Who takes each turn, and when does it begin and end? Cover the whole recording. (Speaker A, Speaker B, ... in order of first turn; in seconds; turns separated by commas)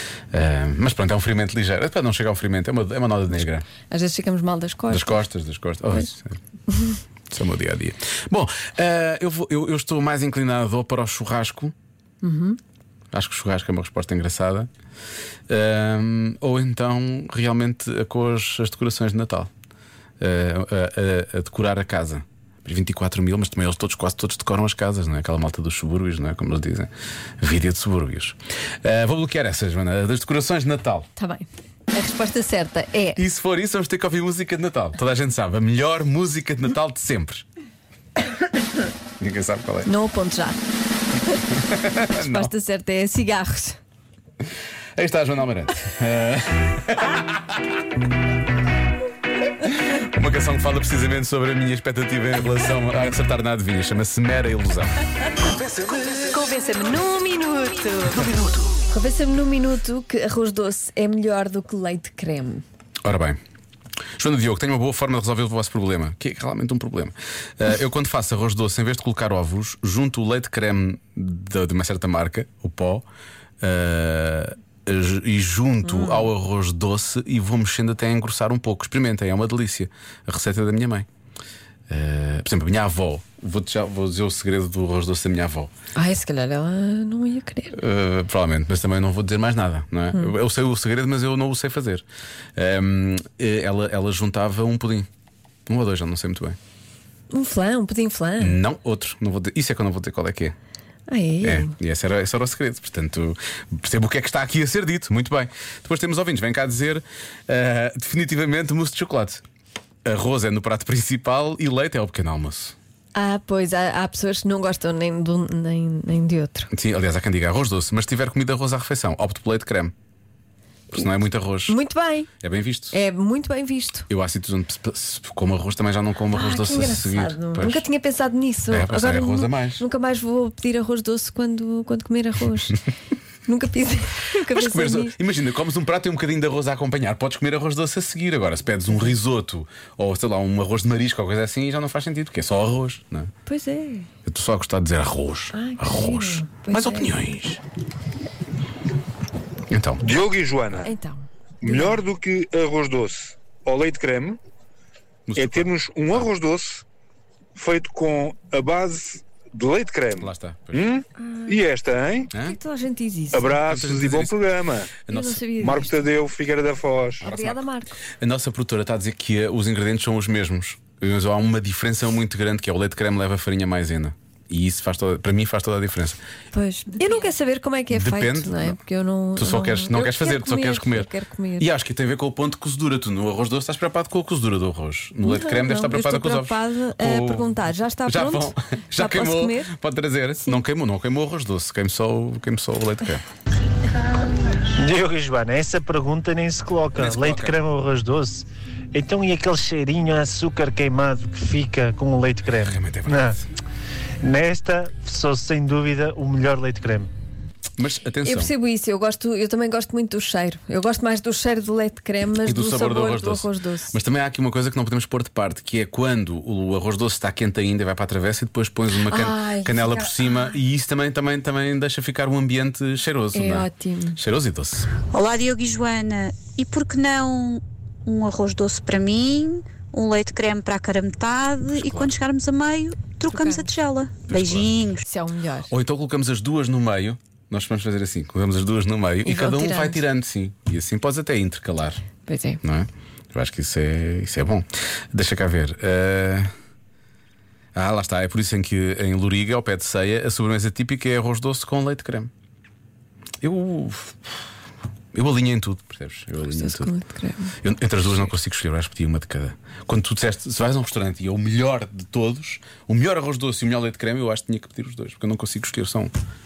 Speaker A: 0.3-3.6, Speaker B: 3.9-5.2, Speaker A: 4.9-6.4, Speaker B: 6.7-7.0, Speaker A: 7.3-11.7, Speaker B: 12.2-12.6, Speaker A: 13.1-14.7, Speaker A: 15.5-19.5, Speaker A: 20.2-26.9, Speaker A: 27.4-31.1, Speaker B: 31.1-33.2, Speaker A: 33.2-37.5, Speaker A: 39.2-39.9, Speaker B: 39.8-40.6, Speaker A: 41.7-42.5, Speaker B: 42.0-43.8, Speaker A: 45.0-47.7, Speaker A: 49.6-54.9, Speaker A: 55.6-56.1, Speaker B: 56.0-62.6, Speaker A: 63.0-63.4, Speaker A: 64.2-73.0, Speaker A: 73.6-81.1, Speaker B: 75.8-76.3, Speaker A: 81.9-85.7, Speaker B: 86.0-87.7, Speaker A: 87.7-92.0, Speaker A: 92.6-95.1, Speaker A: 95.7-96.6, Speaker B: 97.3-98.6, Speaker A: 98.4-100.5, Speaker B: 101.1-101.7, Speaker A: 101.4-109.4, Speaker A: 110.0-112.7, Speaker B: 113.1-116.7, Speaker A: 116.7-119.9, Speaker A: 120.9-121.8, Speaker B: 121.7-122.3, Speaker A: 122.4-122.9, Speaker B: 122.9-124.1, Speaker A: 124.1-127.8, Speaker B: 126.3-132.8, Speaker A: 128.7-129.8, Speaker B: 133.4-135.2, Speaker A: 134.5-143.3, Speaker B: 143.5-144.1, Speaker A: 144.2-147.6, Speaker B: 145.5-147.1, Speaker A: 149.7-150.0, Speaker C: 150.0-150.9, Speaker B: 150.8-152.0, Speaker C: 151.6-154.4, Speaker A: 155.3-156.3, Speaker C: 155.4-156.8, Speaker C: 157.6-162.3, Speaker A: 160.2-160.9, Speaker B: 161.2-161.6, Speaker B: 162.3-163.6, Speaker C: 163.3-164.9, Speaker A: 163.6-164.4, Speaker A: 165.1-165.4, Speaker B: 165.1-166.0, Speaker C: 165.6-167.2, Speaker B: 167.2-168.0, Speaker A: 167.2-167.6, Speaker A: 168.2-176.2, Speaker B: 176.5-181.7, Speaker A: 177.9-178.8, Speaker A: 179.4-193.2, Speaker B: 185.2-189.7, Speaker D: 194.8-203.4, Speaker A: 196.9-197.6, Speaker A: 202.6-203.4, Speaker D: 204.2-207.1, Speaker A: 207.8-208.5, Speaker B: 208.2-213.9, Speaker A: 212.4-224.9, Speaker B: 219.0-220.5, Speaker B: 223.3-224.2, Speaker E: 225.1-235.0, Speaker A: 231.7-232.2, Speaker B: 233.3-233.7, Speaker A: 234.3-234.8, Speaker B: 235.0-235.7, Speaker A: 235.7-242.0, Speaker B: 239.2-240.0, Speaker B: 242.2-242.6, Speaker A: 242.6-246.5, Speaker A: 247.7-252.3, Speaker A: 253.4-254.4, Speaker A: 255.1-256.9, Speaker B: 256.5-257.5, Speaker A: 257.6-266.1